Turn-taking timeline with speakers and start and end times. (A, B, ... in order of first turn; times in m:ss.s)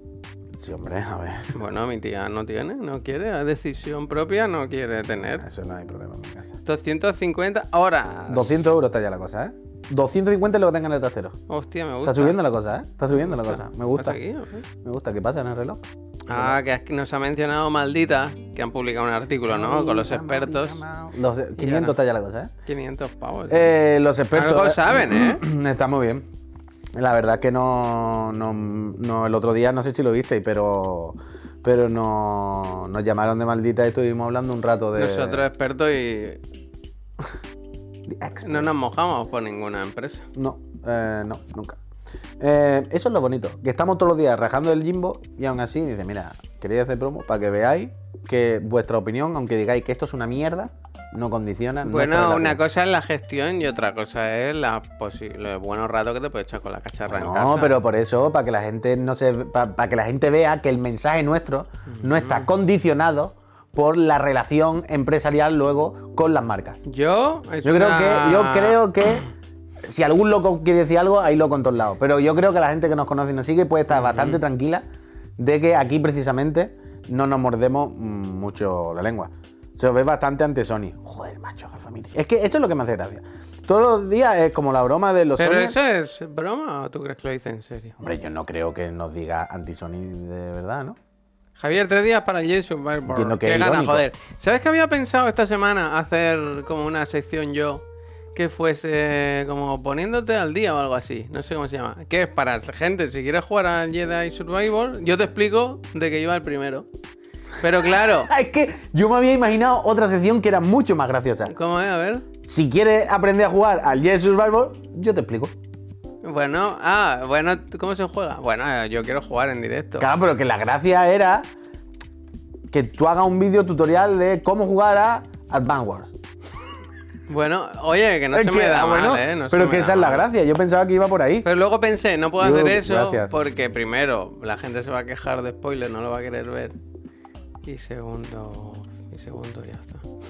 0:00.6-0:01.5 A
0:01.5-0:05.4 B
0:05.4-0:06.6 A
0:06.6-0:08.7 B
0:08.3-0:11.4 A
0:11.5-0:12.4 B
0:12.0-0:14.2 A
0:13.1-0:14.6 B
0:14.8-0:16.6 A
0:16.3-0:20.8 B
0:19.5-0:22.5 A
0:21.6-0:22.0 B
0:22.6-0:23.7 B
0:23.5-0:26.2 A
0:24.3-0:25.4 B
0:26.9-0:35.5 A
0:35.0-0:36.4 B
0:38.1-0:38.7 A
0:38.4-0:40.3 B
0:40.4-0:41.8 A
0:42.4-0:52.6 A
0:51.8-0:57.8 B
0:57.1-1:06.8 A
1:01.9-1:02.5 B
1:06.9-1:09.2 B
1:07.6-1:09.3 A
1:09.8-1:14.8 A
1:13.9-1:14.4 B
1:15.4-1:25.8 A
1:25.4-1:28.0 B
1:28.0-1:31.0 A
1:31.6-1:37.8 B
1:33.1-1:34.0 A
1:38.4-1:46.9 B
1:47.6-1:48.3 B
1:47.8-1:51.5 A
1:51.5-1:52.3 B
1:52.4-1:55.5 A
1:56.2-2:00.1 B
2:00.0-2:01.4 A
2:02.7-2:06.1 A
2:07.3-2:10.3 B
2:08.3-2:11.5 A
2:11.4-2:16.8 B
2:12.4-2:13.3 A
2:17.6-2:20.0 B